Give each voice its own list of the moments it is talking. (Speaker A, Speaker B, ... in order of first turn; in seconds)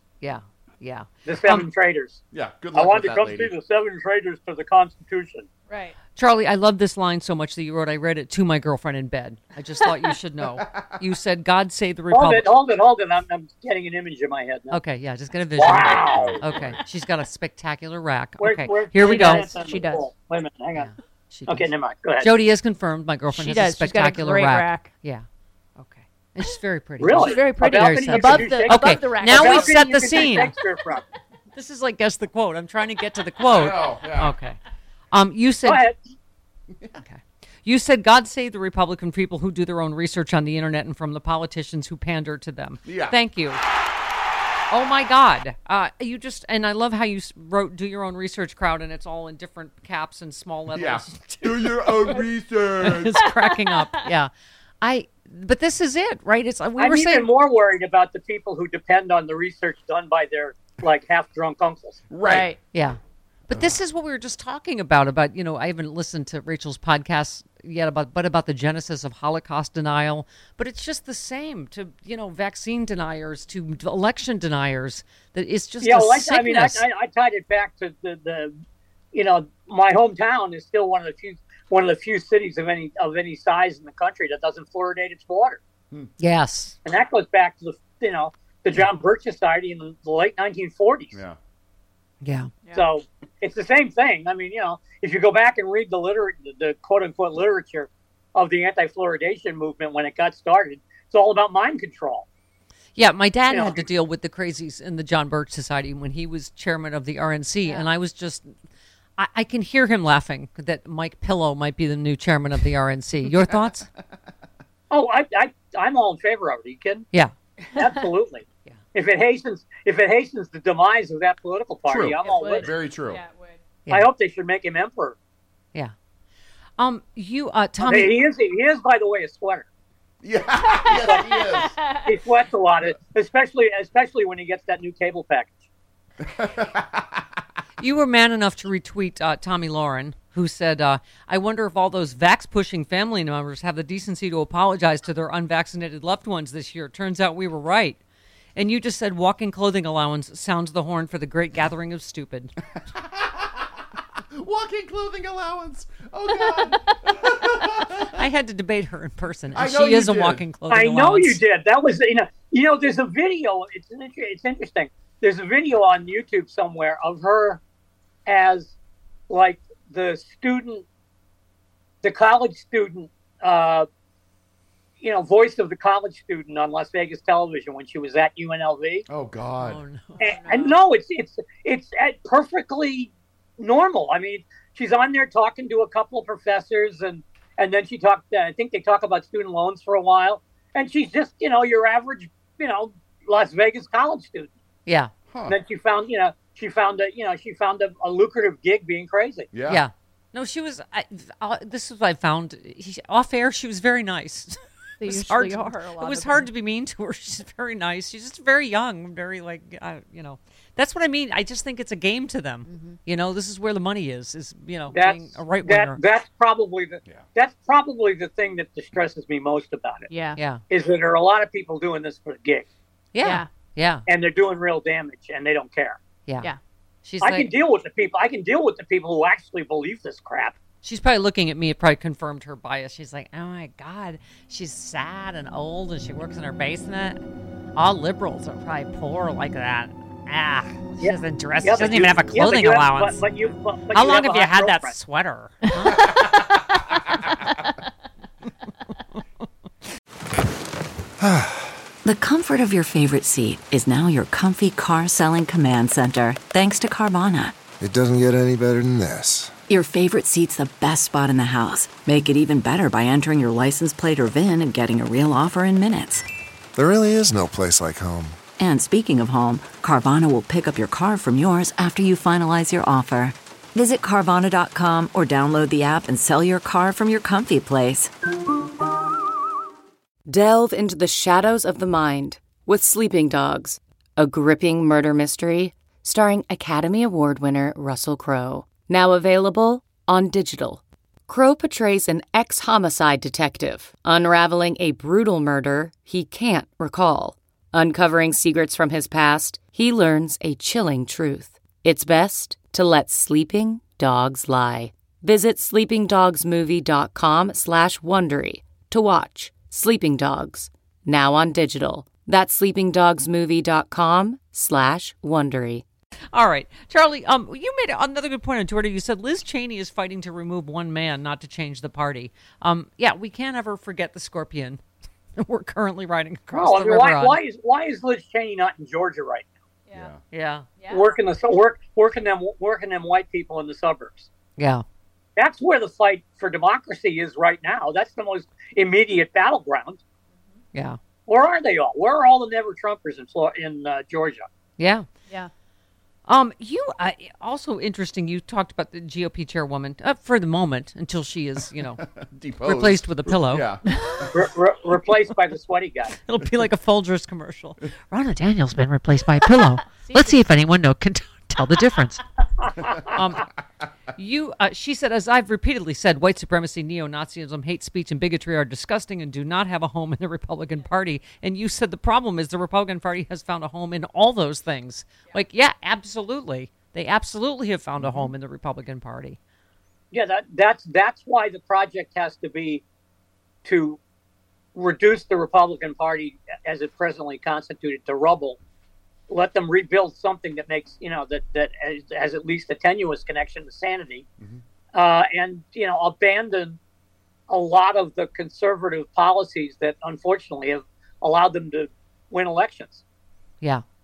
Speaker A: 0.2-1.7, 6.2-12.5, 14.7-19.5, 20.8-25.2, 25.8-30.5, 31.5-34.6, 35.1-35.8, 37.0-43.6, 44.7-52.2, 52.8-57.3, 62.7-76.8, 86.2-86.8, 92.2-92.5, 103.0-108.5, 109.2-113.9, 126.8-128.1, 137.8-148.0, 148.6-152.5, 158.1-161.4, 179.6-180.2, 194.9-195.1, 199.7-216.0, 220.4-220.6, 223.1-224.1, 227.0-227.5, 230.8-237.2, 237.8-243.3, 243.9-246.2, 316.3-324.8, 325.4-327.4, 330.3-330.7, 334.6-334.8, 344.8-345.1, 346.3-352.0, 352.6-353.6, 356.2-362.2, 363.1-363.5, 364.1-379.4
Speaker B: 1.3-2.2, 2.7-5.5, 12.1-14.8, 15.6-16.4, 18.4-20.9, 21.5-22.4, 27.0-31.0, 35.6-36.0, 56.8-62.0, 75.8-78.6, 79.1-85.6, 86.8-91.2, 92.7-102.3, 103.5-103.8, 114.9-117.1, 117.8-122.7, 123.9-125.2, 127.8-129.7, 130.9-131.3, 132.0-135.6, 160.7-167.6, 168.3-168.8, 169.3-170.8, 172.0-173.9, 175.0-179.1, 180.2-194.5, 195.5-199.5, 214.9-220.1, 220.7-222.7, 224.1-226.0, 227.2-230.6, 241.0-245.0, 326.6-329.5, 330.9-334.3, 335.4-340.0, 341.3-344.4, 354.3-356.1, 380.1-382.8, 383.6-384.0, 384.8-388.6, 389.3-394.2, 394.9-396.8, 397.5-403.0
Speaker C: 2.3-3.5, 15.9-16.8, 33.5-34.3, 42.9-43.2, 50.7-53.1, 62.1-62.5, 91.1-91.4, 121.9-123.2, 130.2-131.8, 136.3-137.1, 153.2-153.5, 154.3-158.1, 159.5-160.4, 179.1-179.8, 195.3-195.6, 199.5-199.8, 329.9-330.2, 352.2-353.8, 378.0-378.3
Speaker D: 5.7-6.0, 19.0-20.1, 23.3-24.9, 27.1-29.8, 53.2-53.9, 62.2-62.6, 122.2-123.6, 130.6-132.1, 180.2-180.8, 205.0-206.5, 212.7-213.0, 220.1-220.4, 223.2-223.5, 330.8-331.1, 360.0-360.4
Speaker E: 251.2-251.5, 257.8-259.5, 266.8-268.4
Speaker F: 252.1-257.6, 259.7-266.2, 268.6-278.1
Speaker G: 280.3-315.8